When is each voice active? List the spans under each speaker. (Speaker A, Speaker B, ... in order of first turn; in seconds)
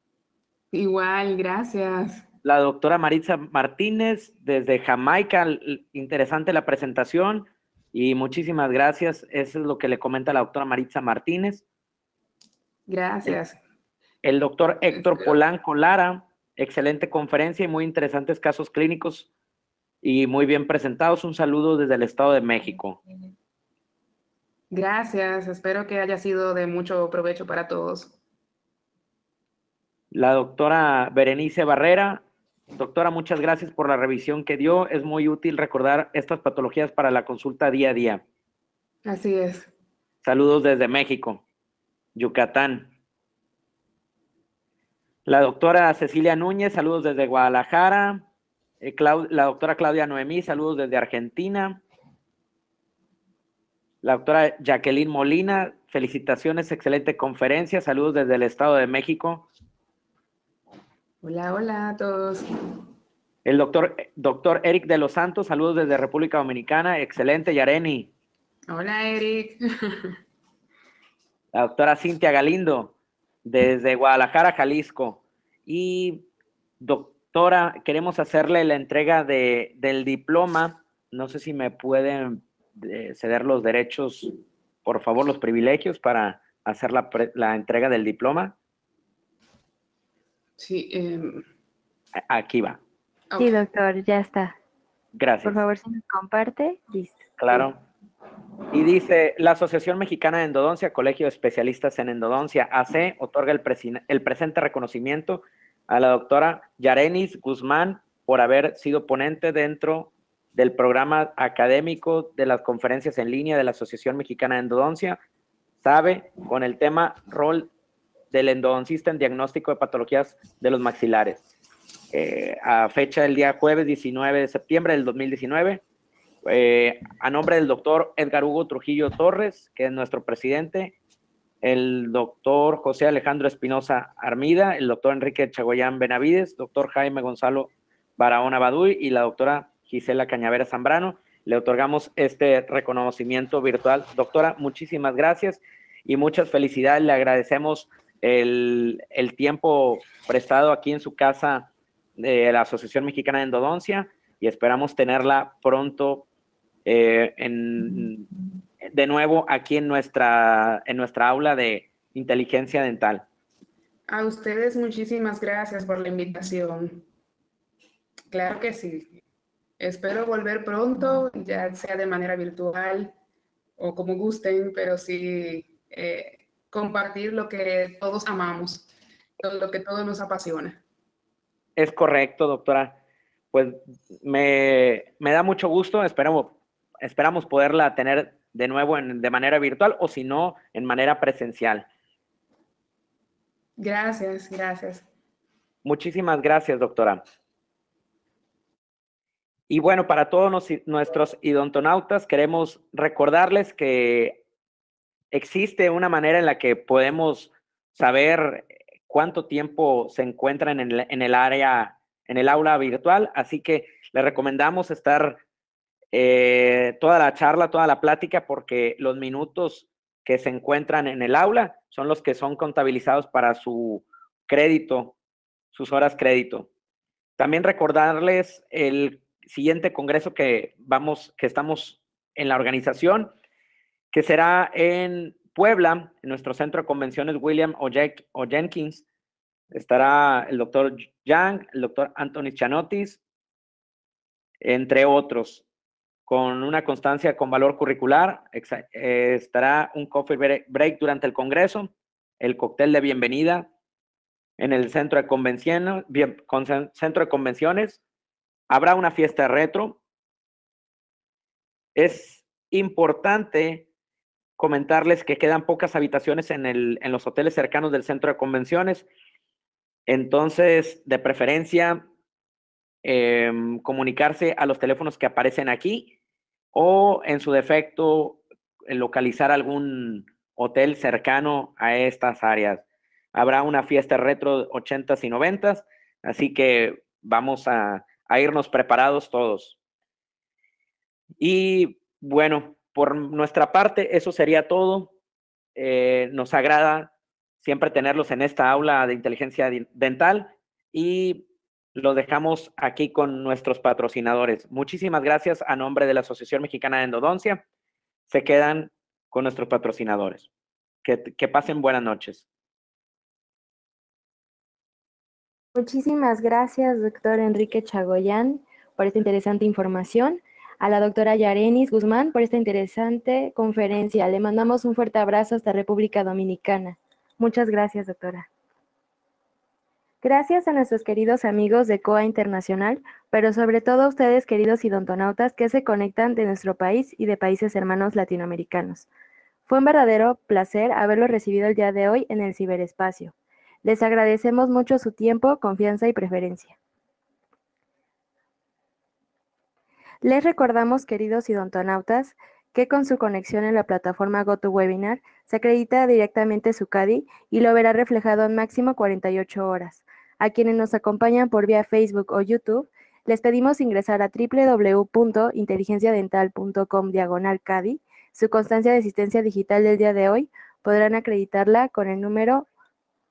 Speaker A: 0.7-2.2, 12.9-13.6, 14.9-15.3, 24.7-28.2, 39.0-39.7, 61.2-62.5, 68.7-70.2, 90.6-91.5, 93.3-93.6, 164.1-167.1, 168.3-169.2, 169.8-173.1, 173.8-178.9, 179.4-180.8, 193.8-195.1
Speaker B: 2.4-11.6, 14.2-19.3, 20.0-23.0, 30.1-38.2, 40.2-41.4, 42.1-42.9, 45.3-48.2, 48.8-51.8, 54.0-59.5, 63.5-68.1, 71.5-72.9, 73.5-76.2, 76.8-84.3, 84.8-88.5, 92.3-92.8, 95.2-95.6, 97.4-97.8, 98.7-115.2, 115.8-117.7, 118.3-121.4, 122.1-125.8, 126.5-131.0, 131.6-156.3, 156.9-158.3, 158.8-163.3, 181.8-183.0, 183.5-191.9, 195.8-197.2, 199.7-204.4, 205.3-215.4, 216.1-225.2, 225.7-226.7, 227.4-233.3, 234.1-239.0, 239.7-243.2, 244.6-245.7, 246.3-253.7, 254.6-258.0, 258.7-260.0, 261.9-263.9, 264.6-269.1, 270.1-272.0, 273.0-276.1, 276.7-282.8, 283.3-289.8, 291.4-295.1, 295.8-307.6, 308.3-310.5, 311.0-312.4
Speaker C: 93.4-94.6, 95.5-97.3, 315.8-328.5, 330.2-339.1, 339.7-346.8, 350.2-372.7